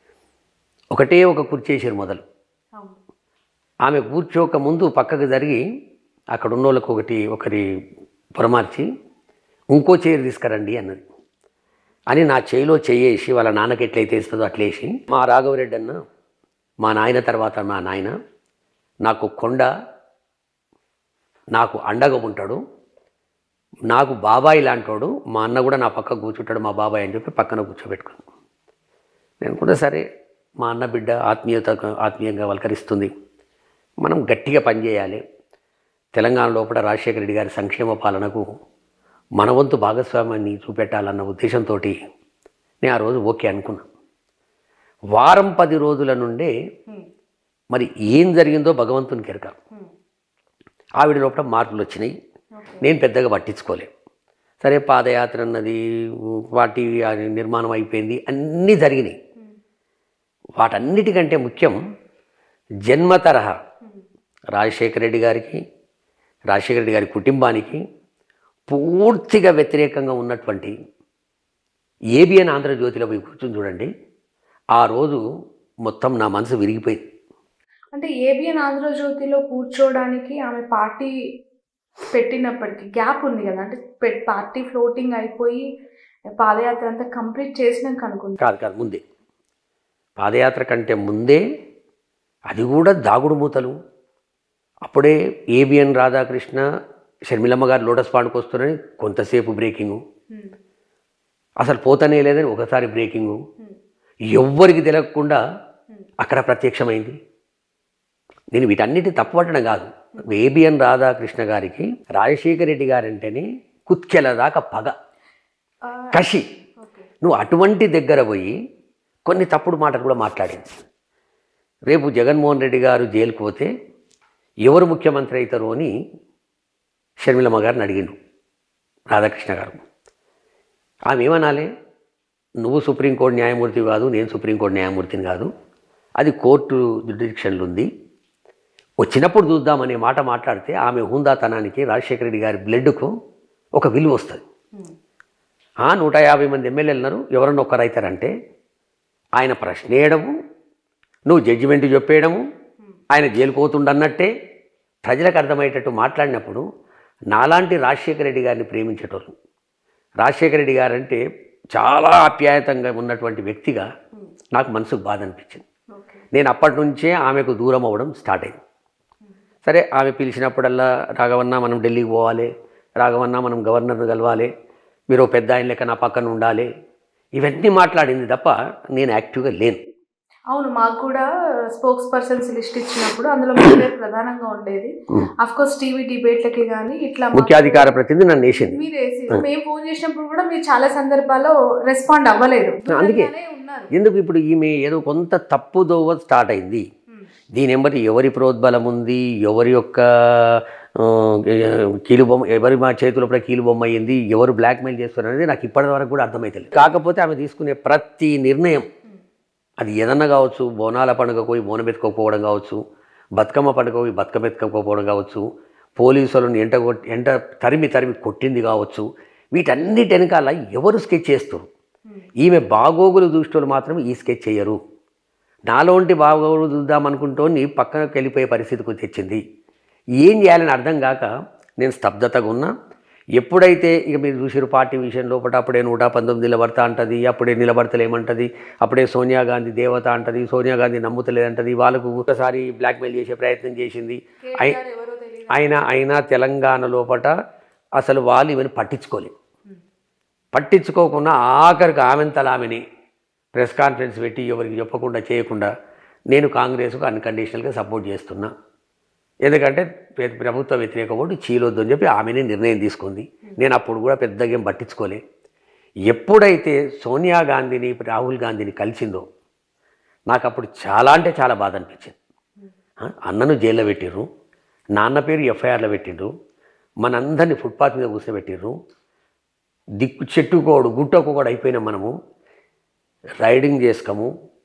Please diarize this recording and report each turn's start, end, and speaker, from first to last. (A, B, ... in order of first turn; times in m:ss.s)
0:00.9-0:02.2 A
0:03.9-0:05.6 A
0:06.3-0:07.6 A
0:08.4-0:08.9 A
0:09.7-0:11.0 A
0:12.1-0:16.0 A
0:16.8-0:18.1 A
0:19.0-0:19.7 A
0:21.6-0:22.6 A
0:23.9-0:28.2 A
0:29.4-0:30.0 A
0:30.6-0:33.1 A
0:34.0-0:35.2 A
0:36.2-0:38.4 A
0:39.4-0:42.0 A
0:42.8-0:43.9 A
0:45.2-0:46.5 A
0:47.7-0:49.5 A
0:51.0-0:52.1 A
0:52.6-0:52.9 B
0:52.8-0:53.9 A
0:54.6-0:59.2 A
1:00.6-1:01.8 A
1:02.9-1:03.5 A
1:04.6-1:05.6 A
1:06.5-1:07.8 A
1:08.7-1:10.7 A
1:12.2-1:13.9 A
1:14.8-1:15.2 A
1:15.9-1:17.0 A
1:17.9-1:21.1 B
1:22.1-1:25.6 B
1:26.4-1:28.4 B
1:28.4-1:29.0 A
1:30.2-1:31.4 A
1:32.5-1:33.7 A
1:34.9-1:36.6 A
1:37.3-1:40.0 A
1:41.6-1:43.4 A
1:44.3-1:45.4 A
1:46.2-1:47.2 A
1:48.5-1:54.9 A
1:55.8-1:56.2 B
1:56.1-1:56.4 A
1:56.8-1:57.1 B
1:57.2-1:58.6 A
1:59.3-2:00.7 A
2:01.9-2:03.7 A
2:04.7-2:05.9 A
2:07.2-2:08.2 A
2:09.1-2:09.8 A
2:11.1-2:11.7 A
2:12.6-2:15.5 A
2:16.2-2:17.9 A
2:19.0-2:23.1 A
2:23.8-2:24.4 A
2:25.9-2:28.3 A
2:29.4-2:30.3 A
2:31.3-2:32.4 A
2:33.1-2:34.3 A
2:35.1-2:36.6 A
2:37.3-2:39.3 A
2:40.2-2:41.2 A
2:41.8-2:43.9 A
2:44.6-2:45.6 A
2:45.9-2:46.2 B
2:46.3-2:48.6 A
2:49.7-2:52.5 A
2:53.0-2:54.5 A
2:55.1-2:56.7 A
2:57.4-2:59.8 A
3:00.5-3:07.9 B
3:07.3-3:08.8 A
3:08.6-3:13.9 B
3:12.9-3:13.3 A
3:13.9-3:16.8 A
3:17.6-3:28.9 A
3:29.8-3:32.8 A
3:33.4-3:35.4 A
3:36.0-3:41.7 A
3:42.4-3:44.8 A
3:45.7-3:49.4 A
3:50.2-3:51.3 A
3:51.8-3:52.7 A
3:53.4-4:04.8 A
4:04.4-4:05.6 B
4:05.5-4:07.3 A
4:08.0-4:09.3 A
4:10.6-4:12.8 A
4:13.6-4:15.7 A
4:16.3-4:18.5 A
4:19.5-4:25.2 A
4:26.1-4:29.2 A
4:30.3-4:32.2 A
4:33.0-4:34.3 A
4:35.0-4:36.3 A
4:37.0-4:38.7 A
4:40.0-4:42.1 A
4:43.4-4:44.3 A